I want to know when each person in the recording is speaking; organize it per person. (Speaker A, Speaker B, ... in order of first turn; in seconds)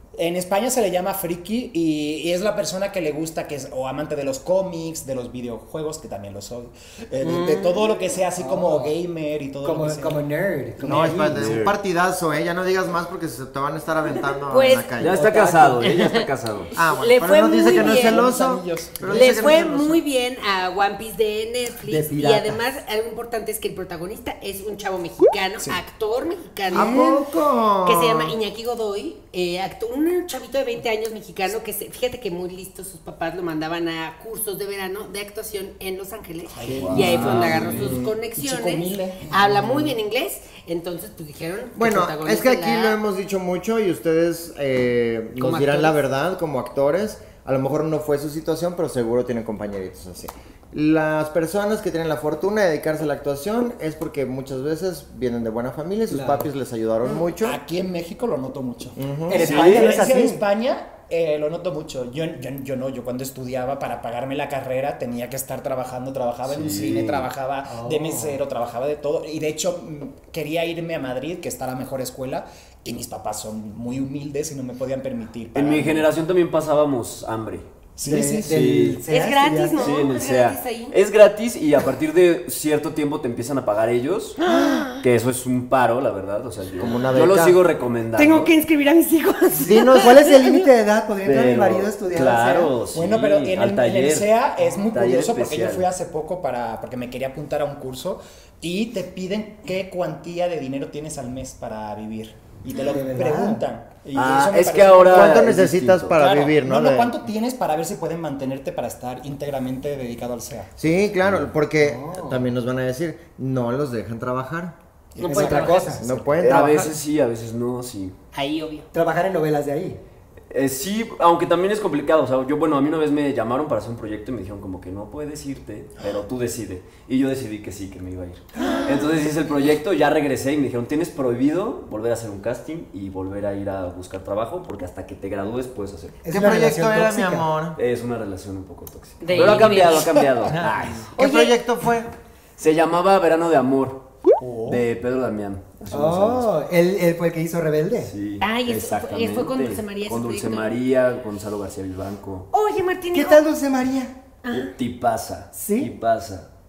Speaker A: 0.1-10.3, 10.8-11.2, 17.5-19.5, 36.5-39.9, 45.4-45.9, 57.4-76.1, 78.0-78.5, 92.9-105.5, 106.1-110.7, 115.1-116.3, 144.4-144.8
Speaker B: 7.2-7.9, 14.3-15.0, 15.6-18.2, 19.1-27.2, 27.8-43.0, 79.1-80.9, 84.4-85.0, 88.2-90.7, 115.2-116.0, 118.3-118.9, 139.2-140.3, 141.2-141.5, 148.4-150.7, 152.5-153.4, 154.4-154.7
Speaker C: 8.4-8.9, 9.6-11.6, 15.1-15.8, 21.8-22.6, 26.7-27.2, 56.1-56.5, 59.3-60.4, 67.7-68.4, 78.0-79.9, 89.9-92.8, 102.7-103.6, 111.8-112.5, 115.2-116.0, 118.9-120.0, 136.2-137.5, 145.9-148.1, 153.1-154.1, 155.5-155.9
Speaker D: 10.8-15.3, 16.7-20.0, 26.7-28.4, 41.8-57.6, 59.0-59.8, 86.8-87.6, 89.6-90.2, 105.1-107.2, 110.8-114.8, 116.0-116.9, 136.3-137.8, 140.4-142.1
Speaker E: 11.3-11.7, 15.0-16.7, 36.8-38.0, 59.5-59.8, 66.4-67.3, 75.5-77.7, 78.2-79.0, 79.8-88.5, 91.2-94.3, 94.9-95.8, 104.1-106.2, 111.2-111.5, 116.4-118.2, 120.5-136.3, 137.8-141.1, 142.6-144.0, 144.6-146.5, 148.0-152.5, 154.5-156.5